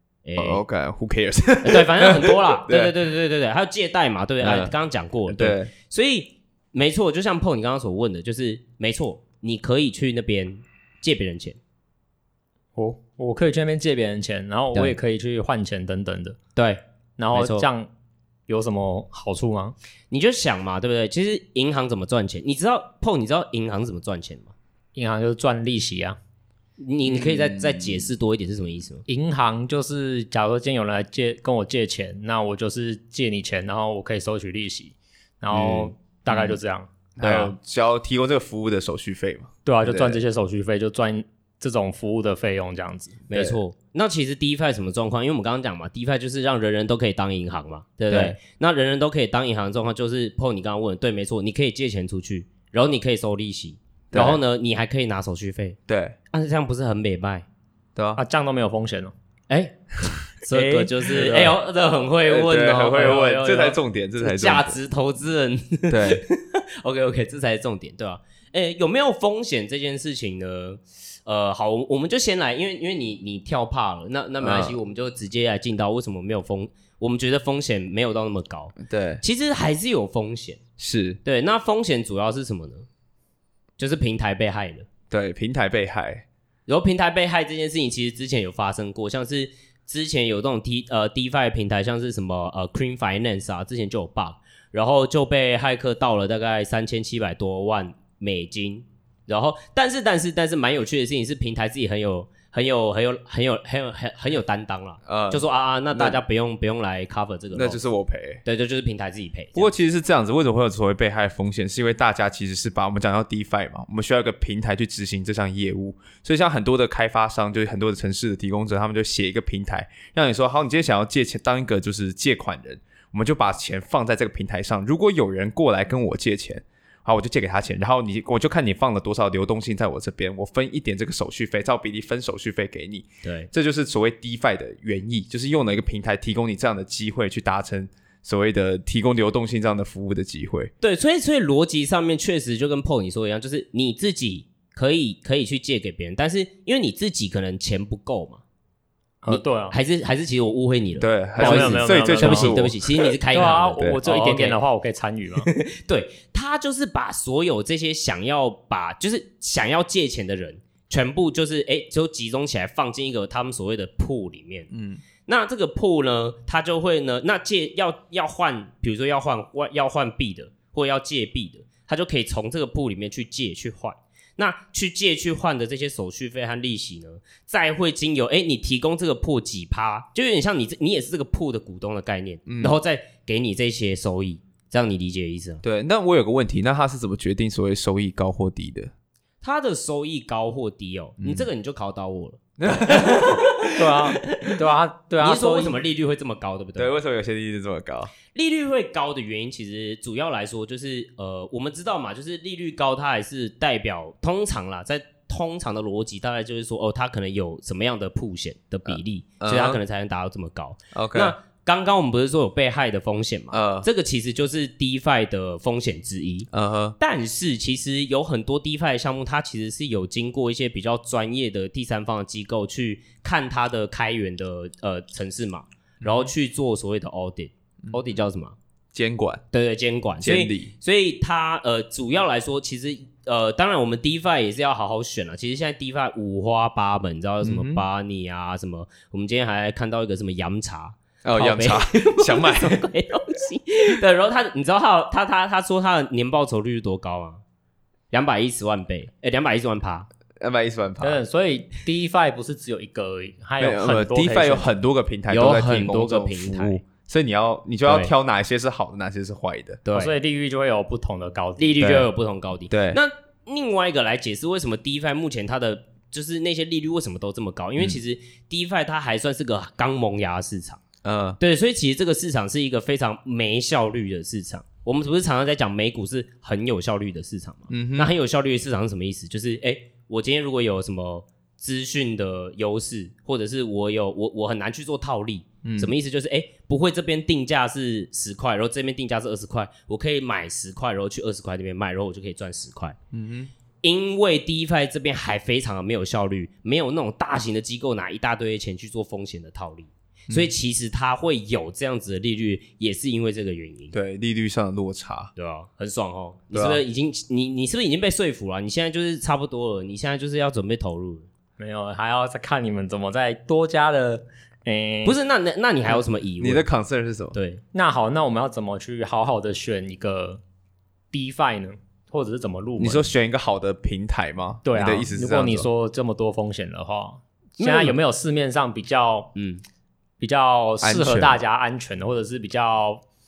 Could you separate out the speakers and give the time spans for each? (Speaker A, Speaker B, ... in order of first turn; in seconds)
Speaker A: 0.2-0.6, 1.6-11.6, 16.6-16.8, 17.3-17.7, 20.1-24.5, 26.8-29.1, 43.3-55.8, 56.3-57.5, 59.5-59.8, 60.4-80.6, 81.2-82.9, 83.8-84.9, 86.7-107.8, 108.5-109.7, 133.2-133.5, 140.8-148.4, 149.3-154.6, 155.4-164.7, 165.3-185.6, 189.4-193.7, 195.2-196.9, 198.3-228.6, 229.5-247.4, 248.1-250.1, 255.3-256.8, 257.9-258.1, 259.9-260.1, 261.6-270.8, 271.4-293.0, 293.8-304.0, 305.4-311.3, 315.0-316.7, 317.3-317.6, 327.6-328.0, 329.4-329.6
Speaker B: 0.4-3.0, 4.4-4.8, 5.3-5.7, 27.0-28.1, 35.5-36.6, 37.2-40.2, 48.1-48.4, 54.1-54.4, 55.9-56.2, 58.0-58.2, 60.5-61.6, 62.3-64.8, 65.9-66.2, 74.4-74.7, 78.8-79.2, 80.8-81.2, 85.1-86.2, 105.1-106.2, 107.5-108.4, 109.5-140.7, 151.0-152.8, 164.7-165.0, 182.5-182.8, 185.6-188.9, 191.2-191.5, 192.6-194.1, 196.8-198.1, 208.9-209.8, 210.9-211.3, 213.5-213.9, 216.5-217.0, 226.0-226.3, 228.9-229.4, 230.2-230.7, 237.4-237.8, 241.2-242.9, 250.4-251.2, 253.6-259.8, 261.8-262.1, 262.7-263.0, 271.0-271.4, 277.7-278.1, 285.6-285.9, 293.1-293.5, 303.9-305.3, 306.5-306.8, 316.0-317.4, 322.8-325.7, 330.8-331.4
Speaker C: 12.8-16.4, 17.2-17.9, 18.5-19.8, 24.9-26.2, 29.1-37.5, 39.6-43.3, 58.2-59.1, 149.2-149.8, 151.4-152.6, 153.2-155.5, 193.6-195.8, 251.0-254.7, 259.9-261.9, 311.6-315.2, 317.7-320.4, 321.1-323.1, 324.7-329.3, 330.2-333.0